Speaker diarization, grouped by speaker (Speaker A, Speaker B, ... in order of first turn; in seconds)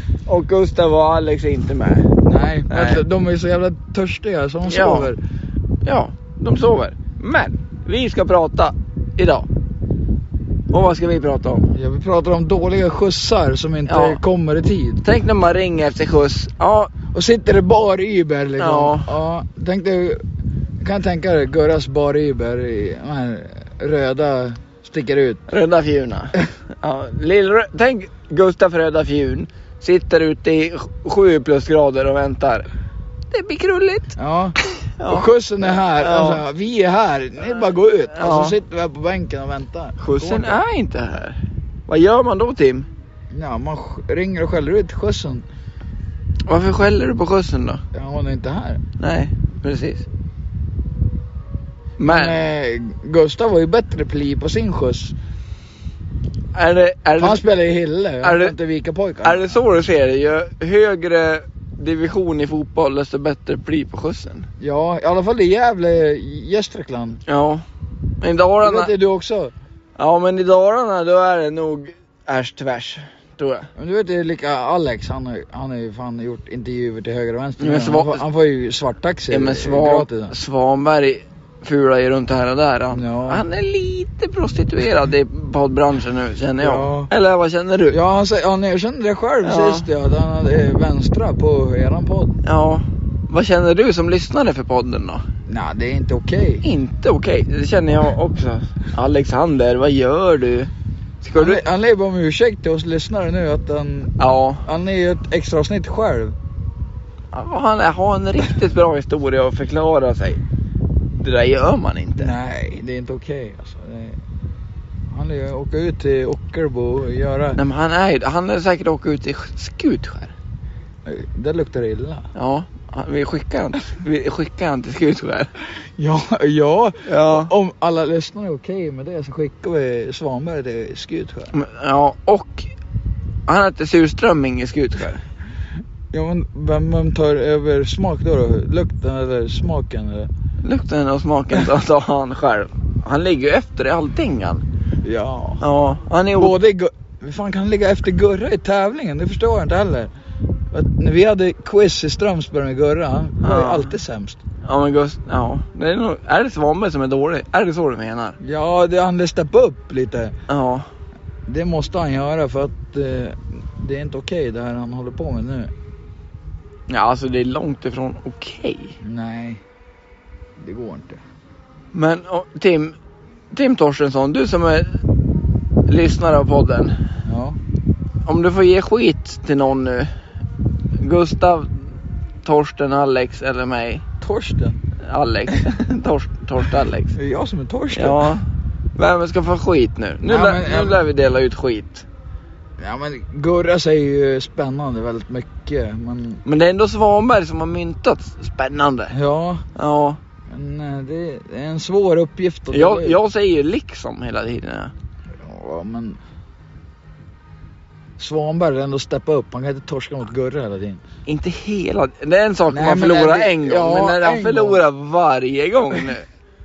Speaker A: 0.2-2.1, 2.7-3.0, 4.7-5.1, 5.8-9.5, 10.7-11.7, 13.8-14.2, 15.0-16.9, 18.6-19.1, 25.5-32.7, 33.3-34.1, 34.6-36.4, 37.4-38.5, 40.0-42.9, 46.5-47.8, 49.0-50.0, 52.0-52.5, 56.5-57.4, 58.2-58.5, 59.2-64.5, 67.3-67.6, 68.2-68.9, 70.0-73.7, 77.6-78.2, 79.3-88.0, 89.4-89.9, 92.4-95.2, 96.6-100.7, 101.2-101.7, 104.2-104.6, 107.3-110.4, 111.2-112.3, 117.5-120.3, 122.3-125.5, 127.0-127.5, 131.5-132.7, 133.5-135.2, 140.6-144.6, 145.6-146.6, 153.4-154.0, 154.6-158.3, 160.5-160.9, 166.9-168.9, 171.9-172.9, 173.5-174.9, 175.9-176.9, 178.2-180.1, 181.0-184.0, 185.0-187.1, 187.9-192.1, 196.4-199.2, 199.7-200.2, 202.7-204.9, 211.2-216.2
Speaker B: 2.2-5.2, 11.7-15.0, 17.0-20.2, 20.8-25.4, 34.1-34.5, 35.1-40.6, 43.3-45.5, 47.9-48.8, 52.1-55.1, 57.2-59.6, 64.6-67.2, 68.6-69.5, 73.8-80.3, 82.9-83.4, 86.6-87.1, 87.9-92.4, 95.5-96.6, 101.3-104.1, 104.6-106.3, 112.2-114.2, 115.1-117.6, 121.0-122.3, 126.0-131.5, 136.1-140.3, 145.0-145.6, 146.3-150.1, 150.7-154.4, 158.4-160.3, 161.4-165.7, 169.0-169.6, 170.6-171.2, 177.2-177.6, 184.2-184.8, 187.1-188.3, 190.2-191.0, 192.8-196.4, 199.1-199.6, 200.5-203.2, 205.4-206.2, 208.2-211.0, 212.7-214.8